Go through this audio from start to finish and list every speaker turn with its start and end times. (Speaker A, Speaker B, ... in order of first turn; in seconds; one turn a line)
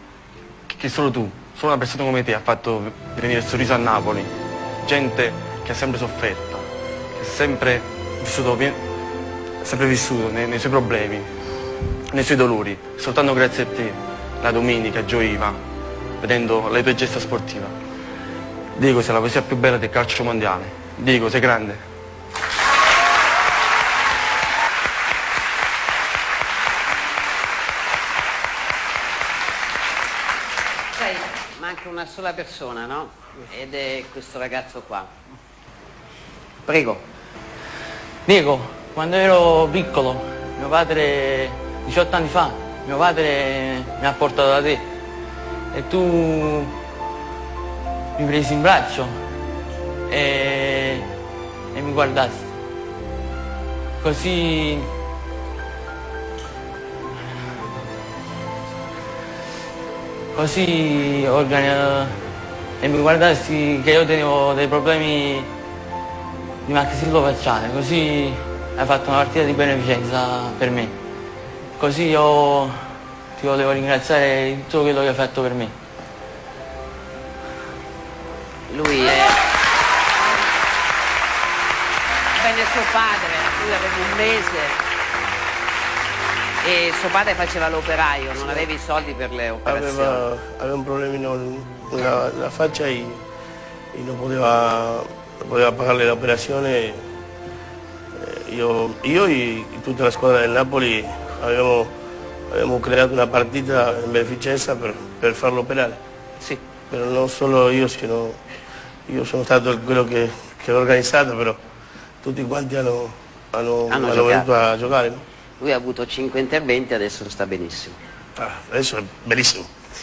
Speaker A: 0.7-4.3
Speaker A: 4.8-8.8
Speaker A: 9.6-11.3
Speaker A: 12.1-15.6
Speaker A: 16.2-17.7
Speaker A: 18.7-21.8
Speaker B: 31.0-35.1
Speaker B: 36.6-37.0
Speaker C: 38.2-44.8
Speaker C: 45.7-46.7
Speaker C: 48.1-49.1
Speaker C: 50.1-51.1
Speaker C: 51.7-52.5
Speaker C: 54.0-54.9
Speaker C: 60.3-62.1
Speaker C: 62.8-65.5
Speaker C: 66.6-70.9
Speaker C: 71.8-72.8
Speaker C: 73.4-75.7
Speaker B: 78.7-79.4
Speaker B: 82.3-84.8
Speaker B: 86.6-90.2
Speaker D: 88.4-88.7
Speaker D: 89.6-93.2
Speaker D: 93.9-97.0
Speaker D: 98.2-101.9
Speaker D: 102.5-106.0
Speaker D: 106.9-108.4
Speaker D: 109.1-111.6
Speaker D: 112.2-115.2
Speaker B: 113.9-114.4
Speaker B: 115.6-118.0
Speaker D: 118.4-119.7